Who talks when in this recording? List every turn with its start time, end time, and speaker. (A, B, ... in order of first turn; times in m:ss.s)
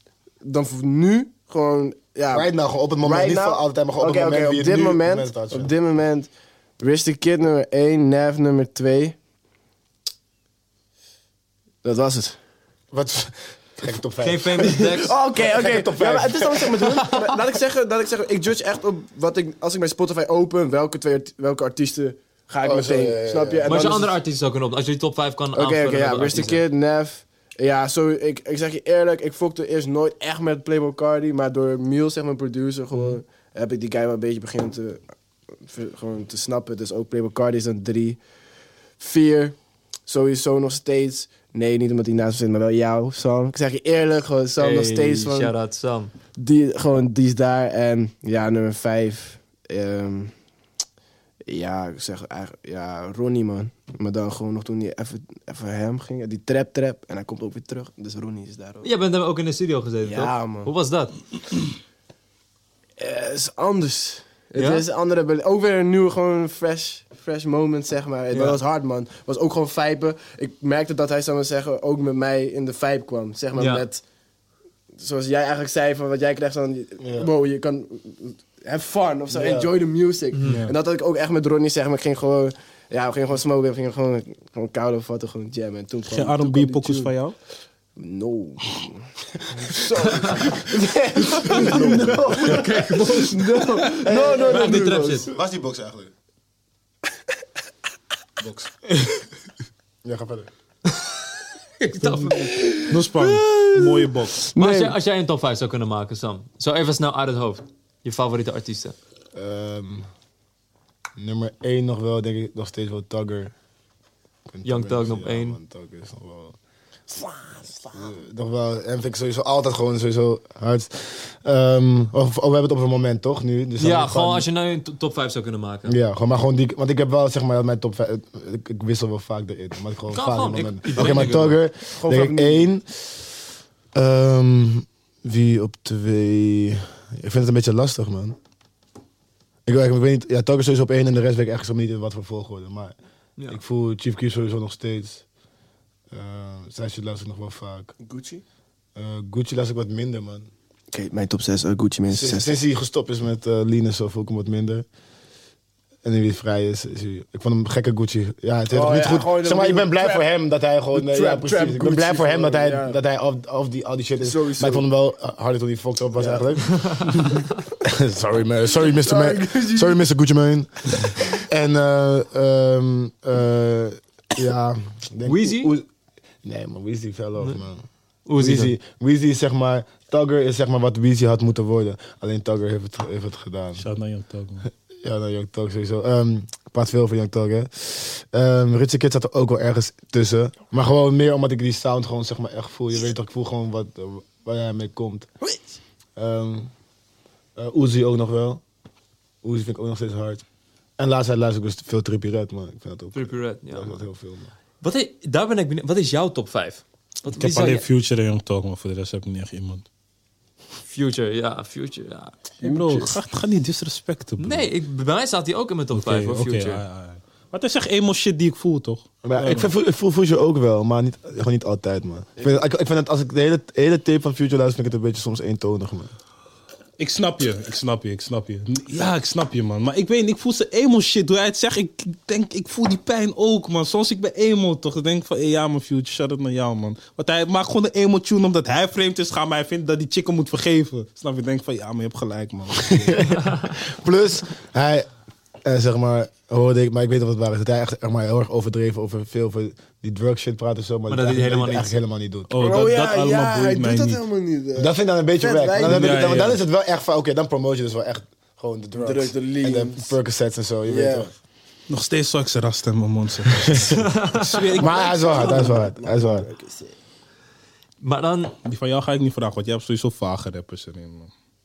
0:00.4-0:02.5 A
0:02.3-0:05.7 B
0:03.0-0:06.3 A
0:06.8-0:09.2 A
0:11.8-0:12.4 A
0:12.9-0:16.9 B
0:14.2-0:15.2 C
0:14.6-0:24.2 A
0:22.6-0:24.0 B
0:23.6-0:26.6 C
0:25.5-0:35.0 A
0:35.6-0:38.2 A
0:39.0-0:45.5 A
0:44.6-0:46.1 C
0:46.4-0:50.3 A
0:51.5-0:58.9 A
0:58.8-1:01.1 C
1:00.0-1:00.7 A
1:03.0-1:14.0 A
1:04.6-1:04.8 C
1:08.3-1:08.6 C
1:13.6-1:13.8 C
1:15.0-1:27.2 A
1:17.0-1:17.3 B
1:19.3-1:19.7 B
1:20.3-1:20.6 C
1:20.5-1:20.7 D
1:26.1-1:27.4 D
1:28.0-1:35.3 A
1:30.0-1:30.5 C
1:31.4-1:32.6 B
1:31.6-1:35.3 C
1:35.3-1:36.1 B
1:38.4-1:38.7 B
1:40.0-1:40.5 B
1:41.8-1:42.6 C
1:42.0-1:44.4 D
1:42.3-1:45.0 A
1:44.6-1:49.0 C
1:49.3-1:50.1 B
1:51.2-1:53.5 B
1:54.5-1:56.6 B
1:54.6-1:55.6 C
1:57.1-1:58.1 A
1:57.9-2:04.5 B
2:03.8-2:06.0 C
2:05.9-2:13.2 B
2:10.1-2:11.6 C
2:11.0-2:12.7 A
2:13.9-2:18.4 B
2:19.7-2:23.0 B
2:23.5-2:25.2 B
2:26.1-2:27.9 B
2:28.0-2:28.4 A
2:29.0-2:30.5 B
2:30.9-2:32.5 A
2:32.1-2:34.9 B
2:36.0-2:47.3 B
2:38.7-2:40.3 A
2:40.9-2:43.0 A
2:44.2-2:44.9 A
2:46.2-2:46.4 A
2:46.7-2:47.4 C
2:47.8-2:55.9 B
2:48.8-2:50.0 A
2:55.2-2:55.7 C
2:56.4-2:57.8 B
2:58.3-2:58.8 C
2:58.4-3:03.9 B
3:03.8-3:04.7 D
3:04.6-3:15.3 B
3:16.2-3:16.7 B
3:17.6-3:18.6 B
3:19.4-3:20.4 B
3:21.0-3:24.5 B
3:23.1-3:24.0 C
3:24.8-3:27.8 C
3:27.3-3:29.8 D
3:30.9-3:32.5 C
3:32.6-3:33.2 A
3:32.6-3:34.7 D
3:34.4-3:36.8 C
3:35.9-3:39.7 D
3:39.2-3:46.1 B
3:47.0-4:03.3 D
4:02.9-4:05.1 B
4:03.4-4:03.7 C
4:05.6-4:12.6 B
4:11.1-4:11.9 C
4:12.5-4:14.2 D
4:12.6-4:16.4 A
4:14.8-4:21.3 B
4:15.8-4:16.6 D
4:19.0-4:20.2 A
4:20.9-4:21.3 A
4:21.9-4:25.6 D
4:23.6-4:24.1 B
4:24.0-4:24.7 C
4:24.8-4:26.5 B
4:24.8-4:27.0 A
4:28.0-4:28.6 C
4:28.6-4:31.3 D